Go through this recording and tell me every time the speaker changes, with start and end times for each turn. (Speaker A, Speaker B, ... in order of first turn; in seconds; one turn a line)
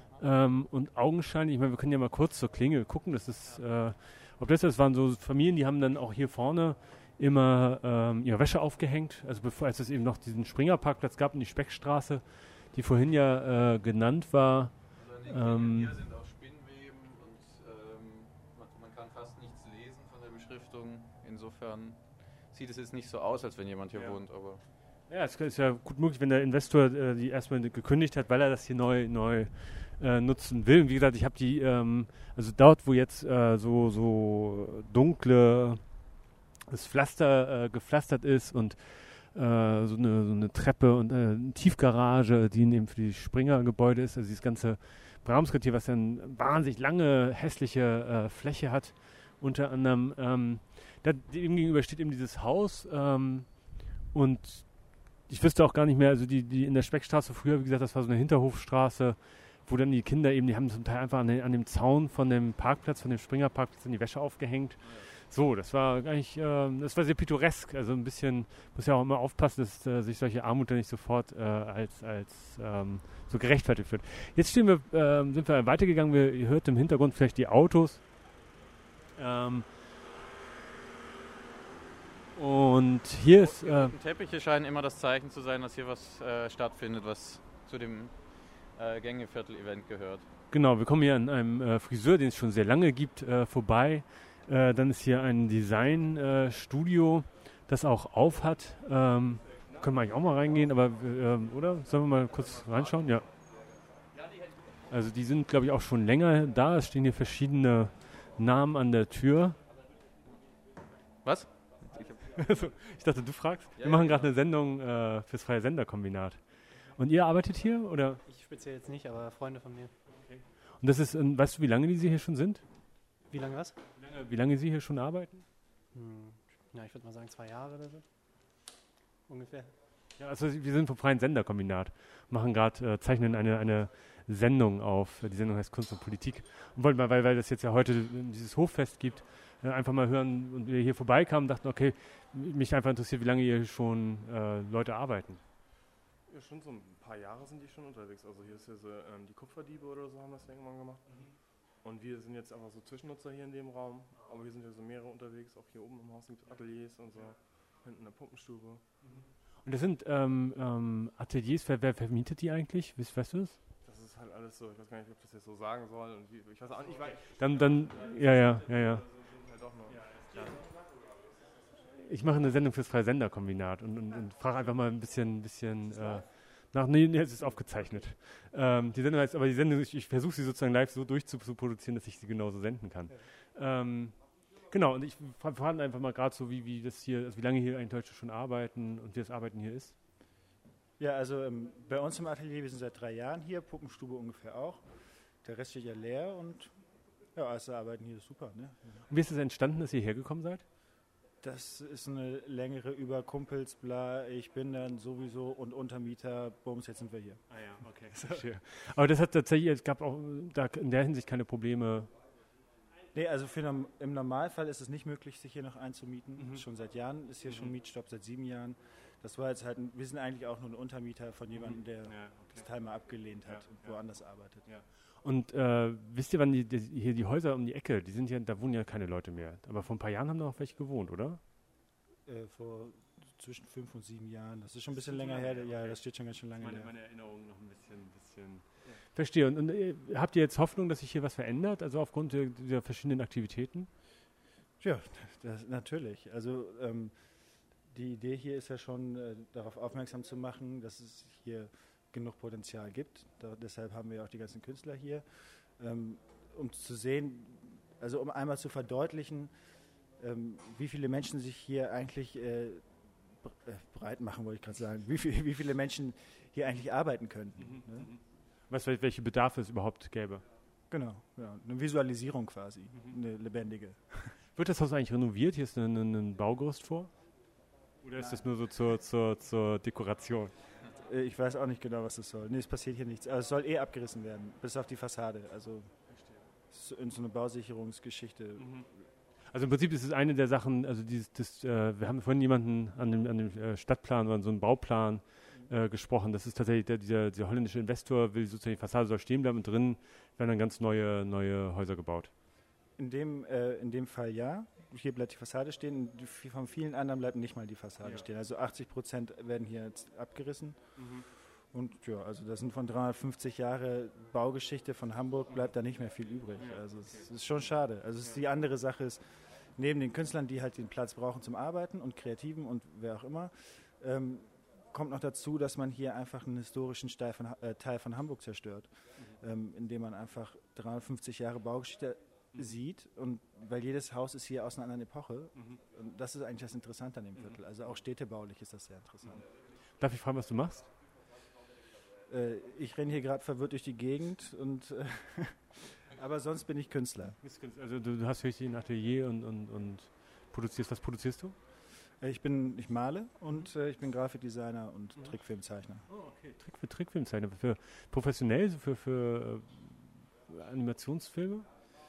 Speaker A: 0.2-14.7
Speaker B: 15.0-22.0
Speaker A: 15.3-15.9
Speaker B: 22.5-24.6
Speaker A: 23.9-24.2
Speaker A: 25.1-36.1
Speaker A: 36.7-78.0
Speaker A: 79.2-79.7
Speaker A: 82.3-83.9
Speaker B: 83.3-88.2
Speaker B: 88.7-90.2
Speaker A: 90.5-103.3
Speaker A: 104.9-109.6
Speaker B: 111.2-112.2
Speaker A: 112.3-116.4
Speaker B: 113.8-114.3
Speaker A: 117.0-118.2
Speaker C: 118.3-119.9
Speaker A: 120.2-122.6
Speaker C: 123.3-123.8
Speaker A: 124.0-125.5
Speaker C: 125.9-128.1
Speaker C: 129.3-129.7
Speaker A: 130.2-145.4
Speaker D: 146.3-151.0
Speaker D: 151.7-158.8
Speaker A: 159.0-163.6
Speaker D: 163.8-170.4
Speaker A: 167.3-169.0
Speaker A: 169.9-170.7
Speaker A: 172.0-189.9
Speaker E: 191.0-194.8
Speaker E: 195.4-196.7
Speaker E: 197.3-198.8
Speaker A: 199.1-200.6
Speaker E: 201.4-208.5
Speaker A: 207.5-212.1
Speaker E: 213.1-224.7
Speaker A: 216.4-216.7
Speaker A: 217.4-217.7
Speaker A: 221.5-222.7
Speaker A: 223.4-231.4
Speaker E: 232.3-236.9
Speaker A: 234.9-243.9
Speaker E: 244.8-247.2
Speaker E: 247.9-259.5
Speaker E: 260.2-268.1
Speaker A: 267.6-270.4
Speaker E: 270.9-274.4
Speaker A: 272.9-273.2
Speaker A: 274.6-277.1
Speaker A: 278.0-280.5
Speaker E: 278.1-278.5
Speaker E: 281.0-285.9
Speaker A: 286.1-286.4
Speaker E: 286.7-288.9
Speaker A: 288.6-288.9
Speaker A: 289.5-302.3
Speaker E: 303.0-319.2
Speaker A: 308.0-308.3
Speaker A: 311.0-311.2
Speaker A: 316.6-317.3
Speaker E: 319.8-339.4
Speaker A: 340.0-340.9
Speaker E: 342.3-347.4
Speaker A: 347.4-351.6
Speaker E: 352.2-356.1
Speaker A: 356.1-361.7